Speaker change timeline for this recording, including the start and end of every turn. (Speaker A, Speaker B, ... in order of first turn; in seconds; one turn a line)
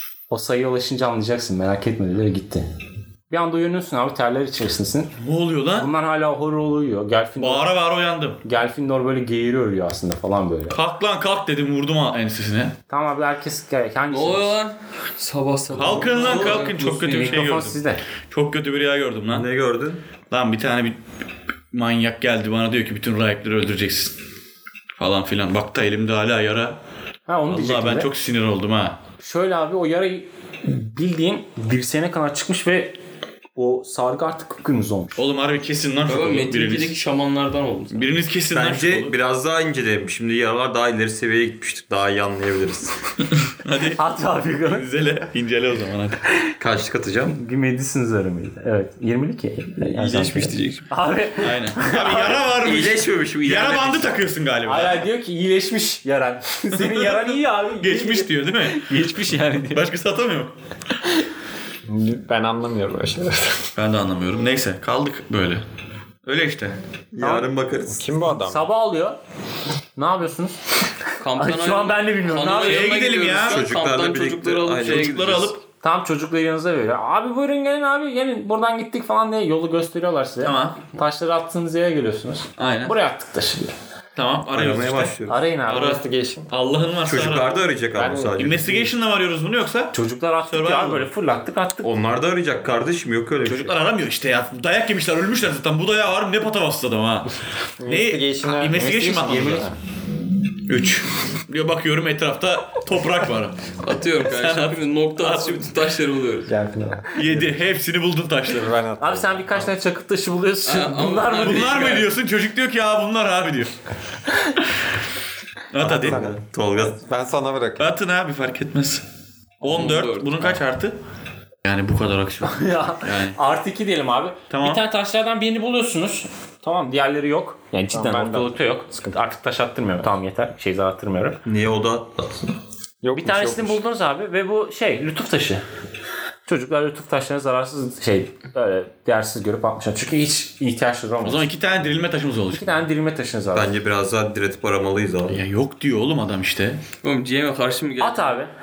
Speaker A: 0.3-2.7
Speaker A: 3.3-5.1
Speaker B: 5.2-5.9
Speaker A: 5.8-7.7
Speaker B: 7.4-8.4
Speaker A: 8.4-10.8
Speaker B: 10.7-12.7
Speaker A: 12.9-14.6
Speaker C: 14.1-17.5
Speaker B: 15.7-19.5
Speaker A: 16.2-18.0
Speaker D: 19.3-20.0
Speaker B: 20.3-21.0
Speaker B: 21.7-24.1
Speaker B: 25.0-26.8
Speaker A: 27.3-28.1
Speaker B: 27.5-29.0
Speaker A: 29.2-33.0
Speaker A: 33.5-35.2
Speaker B: 35.1-37.0
Speaker C: 36.1-38.1
Speaker B: 37.9-39.1
Speaker D: 38.5-43.0
Speaker B: 43.5-44.0
Speaker A: 44.0-44.9
Speaker B: 44.6-46.2
Speaker D: 46.6-47.3
Speaker A: 47.3-52.4
Speaker C: 49.9-50.9
Speaker B: 51.4-55.0
Speaker D: 52.5-54.1
Speaker A: 54.6-59.9
Speaker B: 56.7-58.9
Speaker B: 59.7-60.5
Speaker E: 61.8-63.7
Speaker B: 63.8-65.6
Speaker B: 66.2-66.8
Speaker D: 67.1-68.0
Speaker A: 67.2-67.5
Speaker E: 68.0-68.7
Speaker A: 68.4-69.2
Speaker A: 70.0-70.6
Speaker C: 71.2-75.5
Speaker A: 71.4-73.0
Speaker B: 72.6-73.6
Speaker D: 73.5-75.2
Speaker B: 74.8-75.6
Speaker A: 75.8-83.7
Speaker B: 80.4-80.8
Speaker B: 82.6-83.0
Speaker B: 84.2-87.5
Speaker D: 84.5-85.4
Speaker A: 85.3-86.0
Speaker E: 85.7-86.5
Speaker D: 87.0-88.8
Speaker E: 87.9-88.8
Speaker B: 88.4-89.9
Speaker A: 89.9-91.9
Speaker B: 90.5-91.1
Speaker D: 91.8-93.7
Speaker B: 93.4-97.3
Speaker E: 97.8-99.0
Speaker B: 97.8-99.7
Speaker A: 98.7-99.7
Speaker B: 100.6-103.6
Speaker C: 103.8-106.5
Speaker B: 104.3-105.7
Speaker E: 106.5-107.5
Speaker B: 107.1-108.7
Speaker E: 108.5-109.7
Speaker A: 109.0-112.0
Speaker C: 110.6-112.1
Speaker B: 111.4-113.7
Speaker B: 115.7-116.2
Speaker E: 115.8-117.9
Speaker D: 115.8-117.0
Speaker B: 117.8-119.0
Speaker B: 119.6-121.0
Speaker C: 119.6-120.3
Speaker B: 121.6-123.4
Speaker A: 122.4-131.4
Speaker B: 124.5-124.8
Speaker E: 127.9-128.6
Speaker D: 131.4-132.5
Speaker E: 133.0-133.8
Speaker A: 133.1-135.6
Speaker A: 136.4-141.5
Speaker B: 141.2-142.7
Speaker A: 142.5-143.7
Speaker D: 143.5-145.4
Speaker B: 145.3-146.8
Speaker C: 147.0-148.3
Speaker A: 148.0-148.5